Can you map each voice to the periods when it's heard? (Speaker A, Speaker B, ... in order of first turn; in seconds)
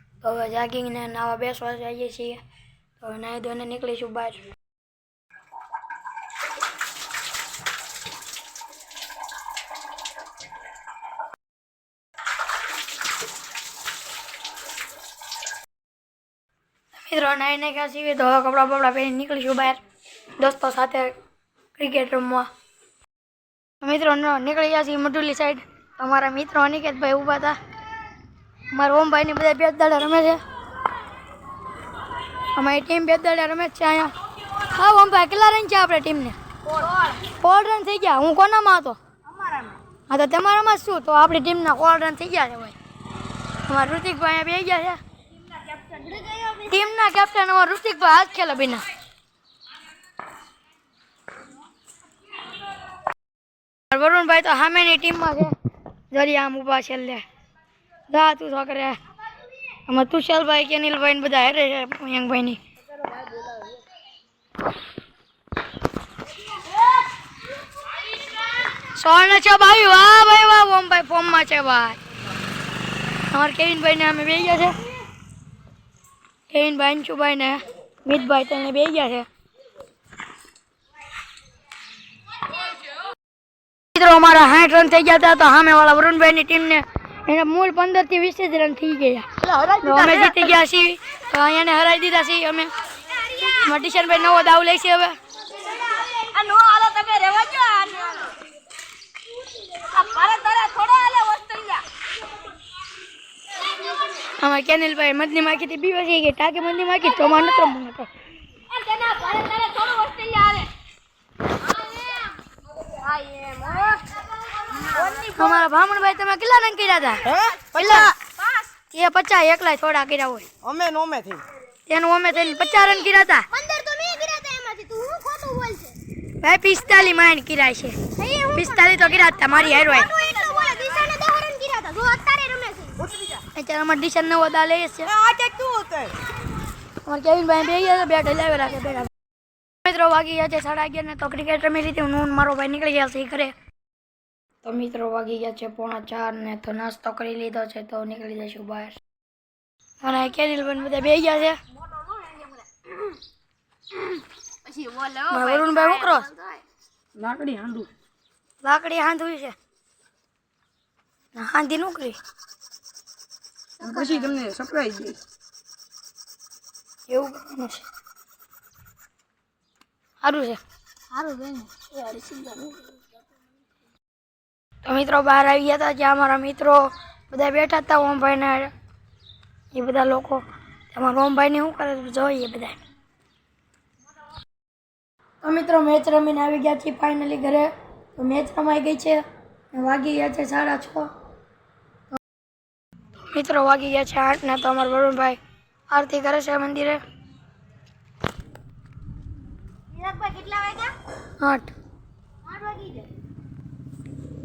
Speaker A: 0.2-2.4, 3.0-4.5, 17.0-19.8, 20.4-21.1, 21.8-22.5, 23.8-27.6, 28.7-30.4, 32.5-36.4, 37.2-39.0, 40.1-42.8, 43.6-45.0, 46.5-48.9, 53.9-55.5, 56.1-57.2, 58.1-59.0, 59.9-62.6, 68.8-72.0, 73.3-74.8, 76.5-79.3, 83.9-89.3, 89.8-92.7, 93.4-95.2, 104.4-108.1, 115.3-118.2, 118.9-120.5, 121.9-123.5, 126.4-128.0, 128.5-130.1, 133.6-135.2, 137.0-139.1, 139.8-143.5, 144.6-149.0, 150.0-151.6, 155.3-156.3, 158.6-159.6, 161.3-162.2, 167.1-167.8, 170.2-170.6, 171.1-171.7, 174.8-178.7, 179.7-182.8, 185.4-191.1, 193.3-195.4, 195.9-197.0, 201.4-201.7
Speaker B: 45.8-46.6, 89.5-89.8, 93.1-93.7, 95.6-98.3, 99.7-101.8, 108.7-110.7, 111.7-112.3, 112.9-115.4, 118.4-118.7, 120.7-121.4, 122.5-126.0, 128.2-133.2, 135.2-136.1, 154.7-156.6, 163.8-164.4, 199.9-201.0, 202.5-203.1
Speaker C: 157.2-157.9, 164.0-165.2